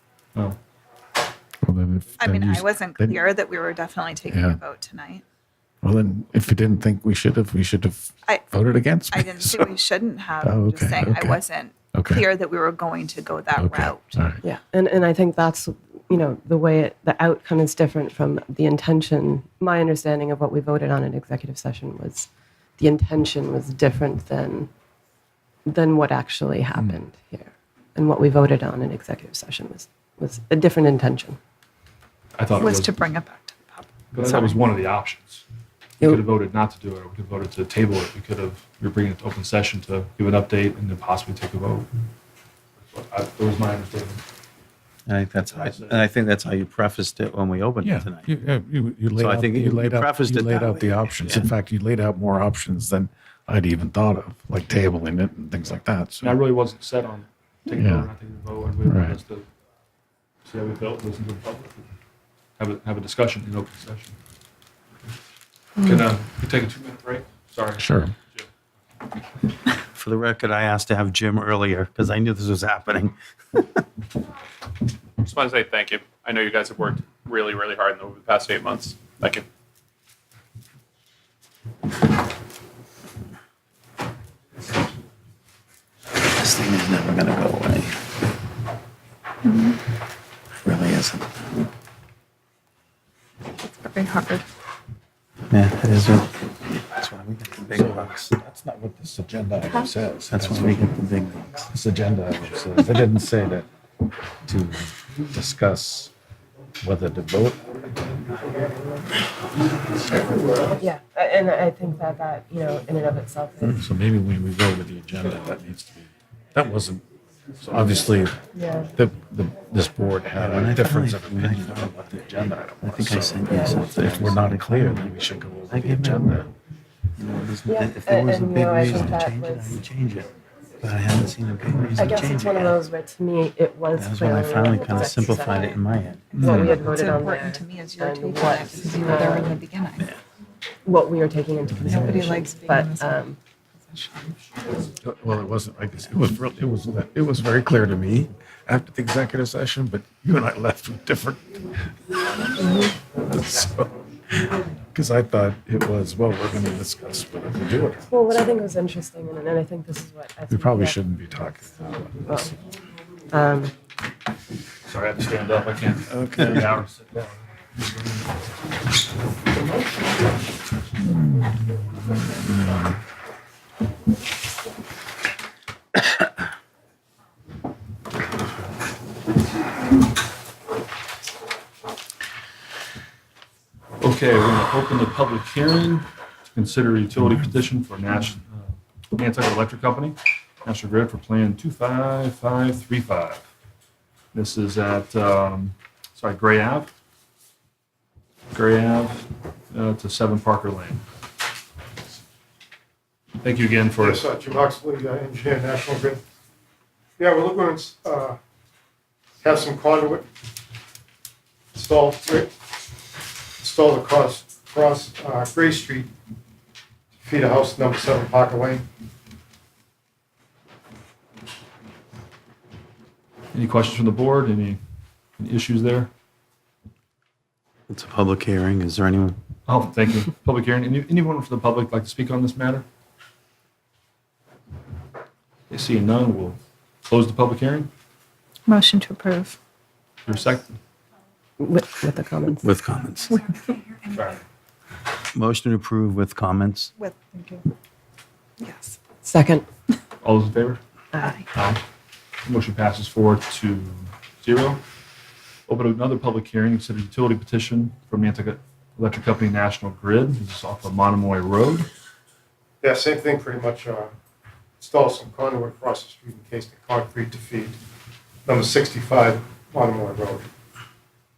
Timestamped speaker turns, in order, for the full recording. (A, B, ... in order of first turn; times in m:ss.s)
0:01.6-0:03.2 A
0:02.2-0:05.2 B
0:04.3-0:04.6 A
0:05.8-0:09.7 A
0:08.3-0:14.2 B
0:10.4-0:11.4 A
0:11.9-0:12.2 A
0:13.6-0:14.4 A
0:14.4-0:24.7 C
0:25.7-0:31.4 C
0:32.4-0:32.9 D
0:32.6-0:34.4 B
0:34.1-0:35.4 D
0:36.0-0:41.9 D
0:42.8-0:44.2 D
0:45.0-0:48.3 E
0:45.4-0:46.0 D
0:47.8-0:56.4 A
0:49.2-0:51.5 E
0:56.2-0:59.5 D
0:57.7-0:58.1 A
0:58.8-0:59.2 A
1:00.4-1:01.9 D
1:02.6-1:04.2 D
1:05.8-1:08.5 D
1:07.8-1:08.1 A
1:09.9-1:13.8 E
1:15.2-1:19.5 F
1:26.3-1:28.0 E
1:29.4-1:29.8 B
1:30.6-1:31.3 E
1:33.6-1:34.4 B
1:35.5-1:38.2 E
1:37.7-1:41.0 A
1:40.3-1:41.6 E
1:41.7-1:43.7 A
1:44.5-1:46.1 A
1:46.8-1:47.7 A
1:50.8-1:53.8 C
1:53.8-1:57.0 A
1:57.6-1:58.4 A
1:58.5-1:58.9 C
1:58.9-2:06.5 A
2:00.4-2:02.0 E
2:02.8-2:05.2 E
2:03.5-2:03.8 C
2:05.7-2:06.4 E
2:07.2-2:12.8 E
2:07.7-2:09.8 C
2:12.0-2:15.8 C
2:13.9-2:16.3 E
2:14.7-2:15.8 B
2:16.3-2:20.1 B
2:16.4-2:19.6 C
2:20.8-2:23.4 C
2:21.8-2:22.2 E
2:21.8-2:23.3 B
2:23.8-2:24.4 B
2:25.0-2:31.5 A
2:32.8-2:34.0 A
2:34.9-2:38.4 A
2:38.1-2:41.0 C
2:40.5-2:42.6 A
2:42.2-2:42.5 C
2:43.3-2:43.7 C
2:44.9-2:48.4 D
2:46.1-2:46.7 A
3:04.0-3:13.4 D
3:14.3-3:16.9 D
3:18.5-3:21.0 D
3:23.4-3:24.2 D
3:24.0-3:26.2 G
3:27.2-3:28.4 G
3:29.4-3:30.2 G
3:31.8-3:32.5 G
3:33.6-3:36.1 G
3:37.2-3:38.8 G
3:43.5-3:44.8 D
3:45.4-3:46.1 D
3:47.9-3:49.4 E
3:49.7-3:52.8 D
3:55.7-3:57.9 D
3:58.7-3:59.6 B
4:00.2-4:00.8 D
4:01.6-4:02.7 C
4:02.6-4:03.4 E
4:03.3-4:04.4 B
4:04.1-4:04.4 D
4:05.3-4:06.9 E
4:07.0-4:07.7 B
4:08.6-4:09.0 B
4:09.2-4:09.6 C
4:10.2-4:10.8 D
4:11.1-4:11.4 C
4:11.5-4:11.8 D
4:12.4-4:14.8 D
4:15.7-4:21.9 D
4:22.8-4:24.1 G
4:24.8-4:27.8 G
4:28.4-4:30.5 G